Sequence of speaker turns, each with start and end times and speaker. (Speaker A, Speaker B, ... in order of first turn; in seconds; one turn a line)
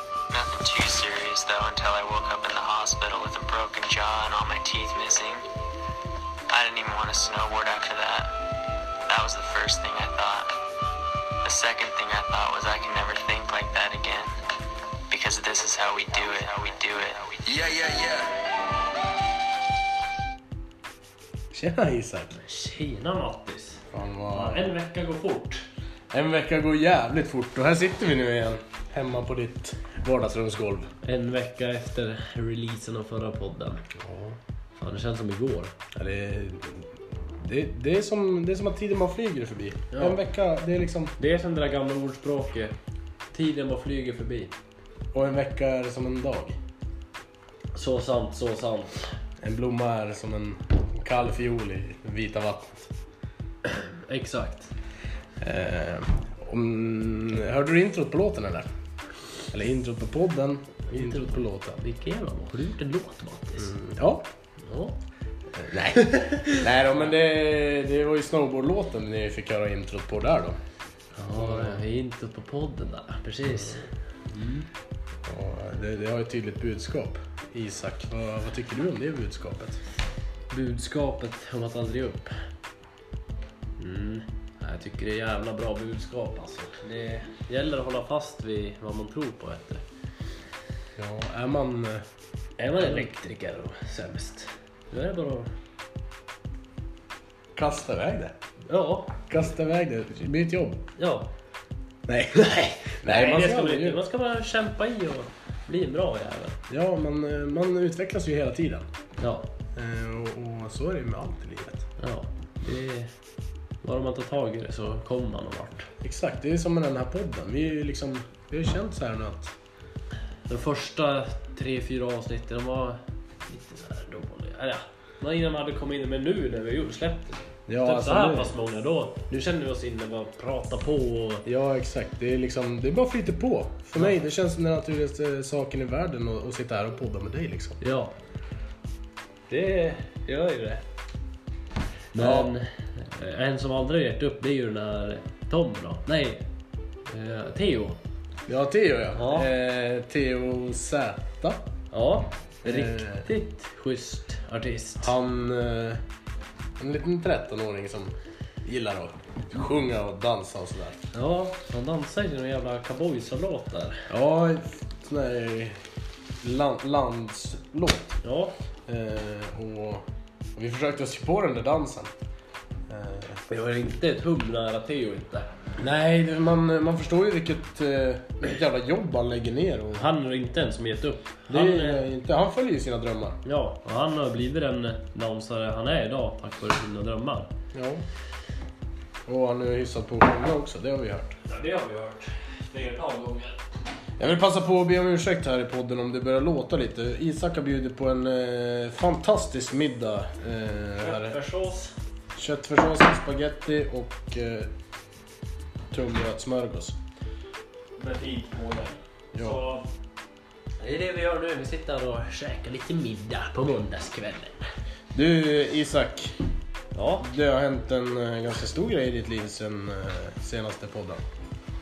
Speaker A: 0.3-5.4
Speaker A: 6.5-8.3
Speaker A: 9.1-10.6
Speaker A: 11.4-14.3
Speaker A: 15.1-18.2
Speaker B: 21.5-22.4
Speaker C: 22.4-25.6
Speaker B: 23.9-24.7
Speaker B: 26.1-30.9
Speaker C: 31.0-33.9
Speaker B: 34.0-34.4
Speaker C: 34.8-35.7
Speaker B: 36.0-36.9
Speaker B: 37.4-41.1
Speaker C: 39.9-40.2
Speaker C: 41.2-42.7
Speaker C: 43.3-44.5
Speaker B: 45.1-46.6
Speaker C: 47.7-49.1
Speaker B: 49.4-52.9
Speaker C: 53.6-54.7
Speaker B: 55.4-58.7
Speaker B: 59.5-61.8
Speaker C: 60.9-63.8
Speaker B: 63.6-64.2
Speaker C: 64.6-65.0
Speaker B: 65.5-70.6
Speaker C: 65.9-66.8
Speaker C: 71.2-74.7
Speaker B: 71.3-71.8
Speaker B: 73.5-73.8
Speaker B: 75.2-79.8
Speaker C: 80.5-82.4
Speaker C: 83.8-89.8
Speaker B: 91.0-92.1
Speaker C: 92.6-95.5
Speaker B: 92.8-93.1
Speaker B: 97.5-98.3
Speaker C: 98.7-99.2
Speaker B: 99.3-100.9
Speaker C: 101.0-101.3
Speaker B: 102.1-104.0
Speaker C: 102.3-106.6
Speaker B: 106.7-108.9
Speaker C: 109.2-109.5
Speaker B: 109.8-111.9
Speaker C: 112.0-113.1
Speaker C: 113.8-115.9
Speaker B: 116.0-119.5
Speaker C: 120.5-131.4
Speaker B: 127.7-128.6
Speaker B: 131.4-137.8
Speaker C: 137.8-138.1
Speaker C: 139.5-140.8
Speaker C: 142.1-146.4
Speaker B: 142.2-142.6
Speaker C: 147.1-148.0
Speaker B: 148.5-151.7
Speaker C: 149.2-149.5
Speaker C: 151.9-155.1
Speaker B: 152.6-153.3
Speaker B: 155.0-156.0
Speaker B: 156.8-161.0
Speaker C: 161.1-164.1
Speaker B: 164.1-165.8
Speaker B: 166.4-168.2
Speaker C: 168.2-168.6
Speaker B: 168.9-172.1
Speaker B: 172.9-173.4
Speaker C: 173.5-175.5
Speaker B: 175.8-180.1
Speaker C: 179.9-182.1
Speaker B: 181.5-183.4
Speaker C: 183.4-187.5
Speaker B: 187.7-188.0
Speaker B: 189.3-191.4
Speaker C: 191.4-193.6
Speaker B: 194.2-201.4
Speaker C: 201.0-201.9
Speaker B: 202.4-204.7
Speaker B: 205.9-207.0
Speaker C: 208.0-209.9
Speaker B: 209.3-209.6
Speaker C: 210.8-214.7
Speaker B: 215.1-216.4
Speaker C: 216.9-217.3
Speaker B: 217.2-221.2